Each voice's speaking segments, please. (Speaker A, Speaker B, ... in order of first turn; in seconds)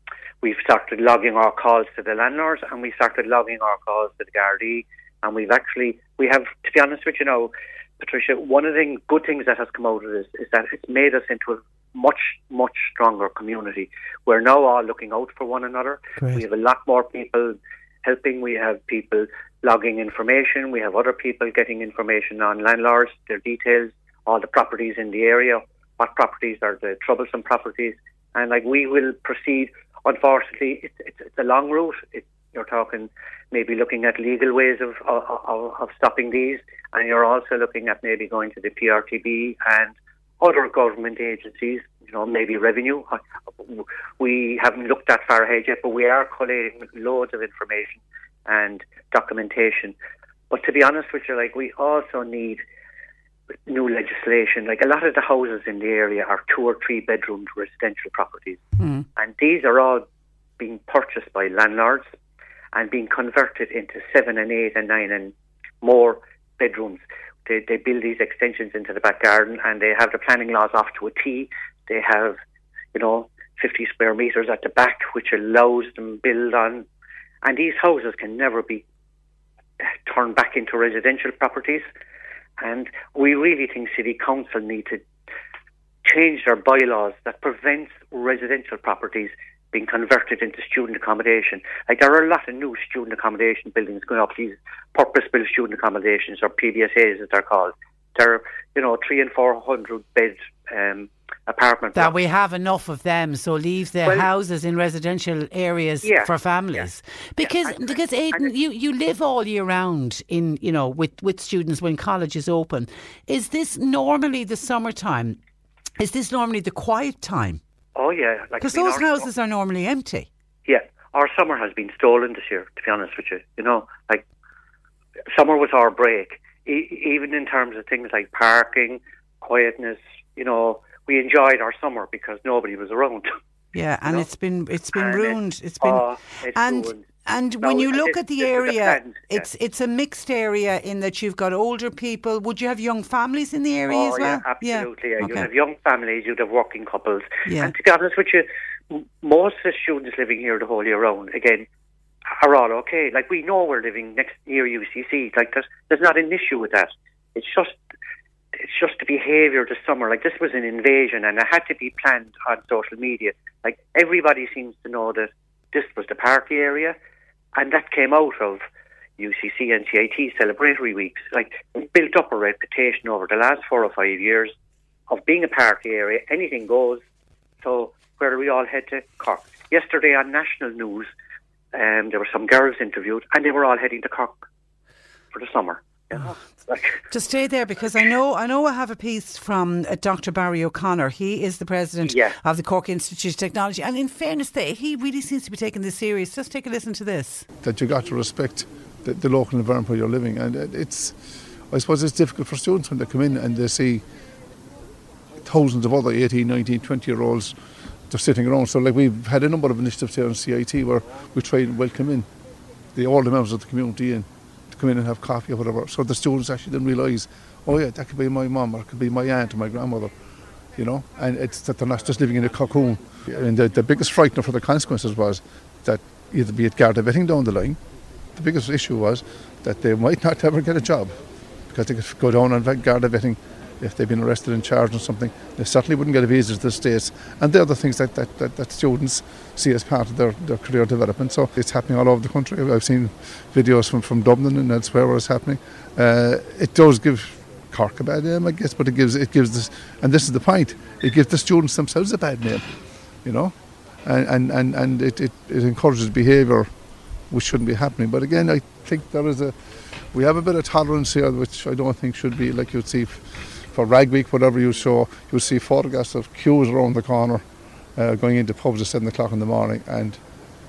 Speaker A: 0.4-50.0, 50.5-52.6, 53.7-58.6, 59.2-60.0, 60.6-62.1, 62.7-72.4, 72.9-76.9, 77.4-78.8, 79.8-81.9, 82.6-85.0, 86.0-102.2, 104.0-104.3, 106.0-108.5, 118.0-119.3, 120.7-124.2, 125.3-133.3, 134.9-137.1, 137.6-139.5, 143.9-151.7, 152.3-157.8, 158.6-167.0, 167.6-168.6, 169.2-174.5, 175.1-177.0, 177.6-181.1, 181.7-184.4, 185.3-187.0, 192.1-192.4
Speaker B: 58.8-59.1, 102.0-115.4, 116.0-117.6, 118.6-120.3, 133.7-145.5, 147.4-147.7, 187.1-197.4
Speaker C: 197.6-201.2, 201.7-204.1, 205.4-207.6, 208.1-212.3, 212.9-220.1, 220.8-227.8, 228.3-231.2, 231.7-252.7, 253.2-256.7, 257.3-259.6, 260.1-267.4, 267.9-270.2